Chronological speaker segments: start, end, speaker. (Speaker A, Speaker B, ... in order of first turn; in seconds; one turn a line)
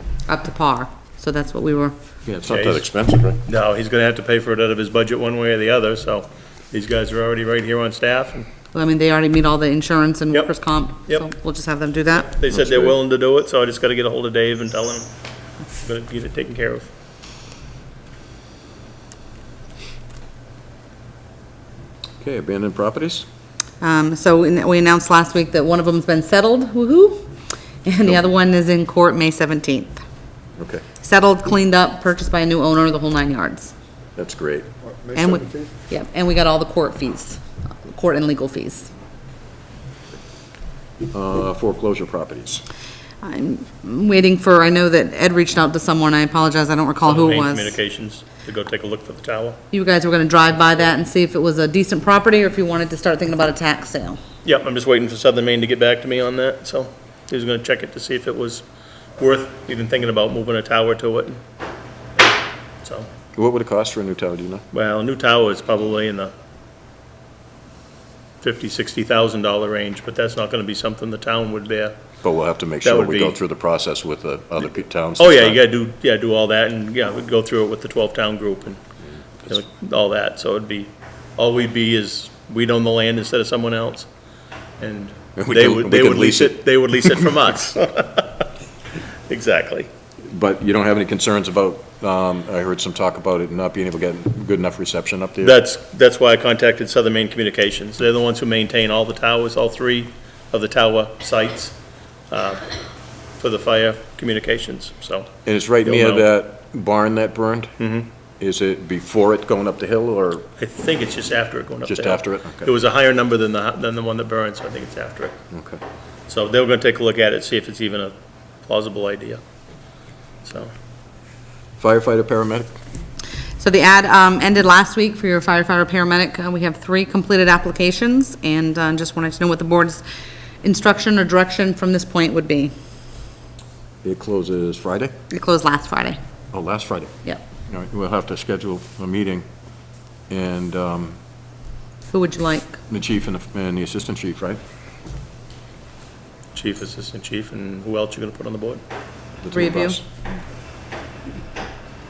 Speaker A: 0.3-1.9
Speaker B: 2.2-3.4
Speaker C: 2.5-2.8
Speaker C: 3.5-8.4
Speaker A: 8.7-12.3
Speaker C: 12.3-15.1
Speaker B: 12.5-13.0
Speaker C: 15.8-16.9
Speaker B: 22.2-23.2
Speaker A: 23.8-27.3
Speaker A: 27.8-30.0
Speaker B: 30.6-30.8
Speaker A: 31.0-33.7
Speaker B: 34.1-34.7
Speaker A: 35.1-38.9
Speaker B: 41.1-42.6
Speaker A: 43.2-47.8
Speaker C: 47.0-49.6
Speaker A: 49.7-54.2
Speaker C: 54.4-58.6
Speaker C: 59.2-61.4
Speaker C: 62.8-63.1
Speaker B: 63.3-64.6
Speaker C: 64.7-66.3
Speaker C: 68.4-72.0
Speaker B: 72.2-75.6
Speaker C: 72.8-73.4
Speaker C: 75.2-78.8
Speaker C: 79.5-84.1
Speaker C: 84.8-88.5
Speaker B: 85.4-86.6
Speaker C: 89.3-89.9
Speaker B: 90.2-95.6
Speaker C: 95.4-101.8
Speaker C: 102.3-102.6
Speaker C: 103.4-105.3
Speaker B: 105.5-107.7
Speaker C: 105.8-106.3
Speaker C: 107.8-108.1
Speaker B: 108.4-110.5
Speaker C: 110.6-115.3
Speaker B: 111.8-112.7
Speaker B: 115.5-115.8
Speaker C: 116.3-119.4
Speaker C: 120.4-120.7
Speaker B: 121.8-122.7
Speaker A: 123.6-130.0
Speaker A: 130.6-132.7
Speaker B: 134.0-135.1
Speaker A: 135.3-136.2
Speaker B: 136.5-137.1
Speaker B: 137.7-139.4
Speaker B: 140.3-141.2
Speaker A: 142.1-142.8
Speaker B: 142.9-144.6
Speaker C: 146.5-148.8
Speaker B: 149.4-150.0
Speaker A: 149.5-150.0